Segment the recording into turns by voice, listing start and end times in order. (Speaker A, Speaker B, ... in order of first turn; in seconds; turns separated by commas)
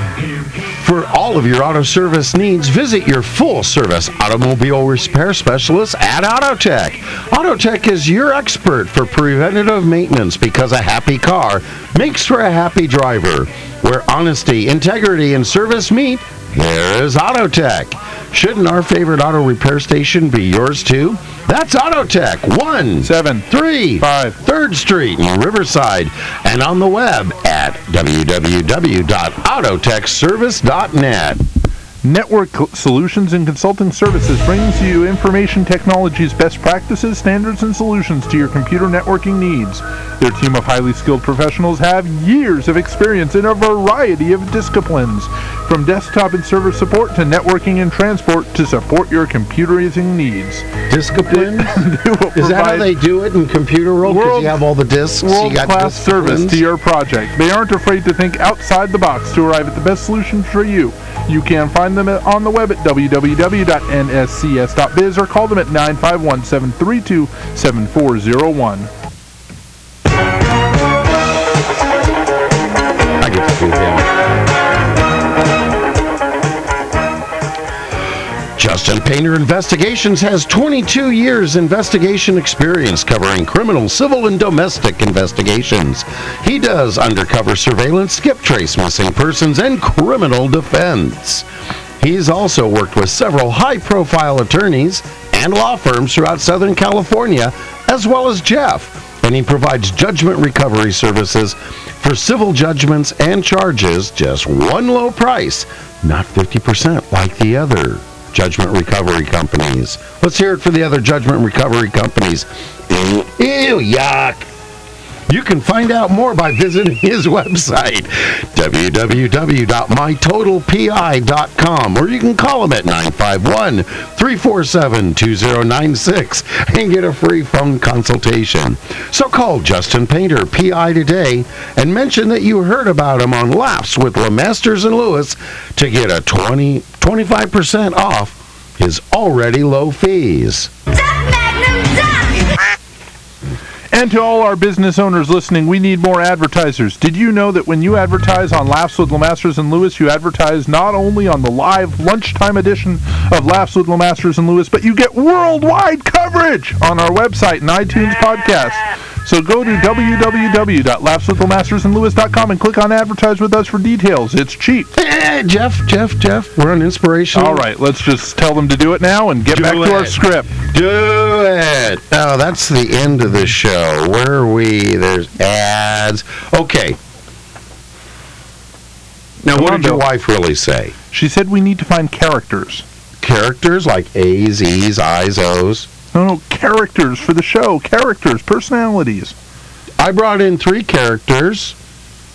Speaker A: 0.6-31.4, Speaker B: 23.0-23.5, Speaker B: 24.0-24.4, Speaker B: 32.0-50.7, Speaker A: 50.9-51.7, Speaker B: 51.3-52.9, Speaker A: 52.4-56.6, Speaker B: 54.0-54.6, Speaker B: 55.2-68.9, Speaker A: 73.2-74.1, Speaker A: 78.6-91.5, Speaker A: 92.0-114.5, Speaker A: 115.3-140.7, Speaker B: 143.9-164.9, Speaker A: 164.9-167.6, Speaker B: 167.3-170.5, Speaker A: 169.5-177.0, Speaker A: 179.4-180.9, Speaker B: 179.5-180.0, Speaker B: 181.1-182.8, Speaker A: 183.2-185.9, Speaker B: 186.1-189.3, Speaker A: 190.0-191.8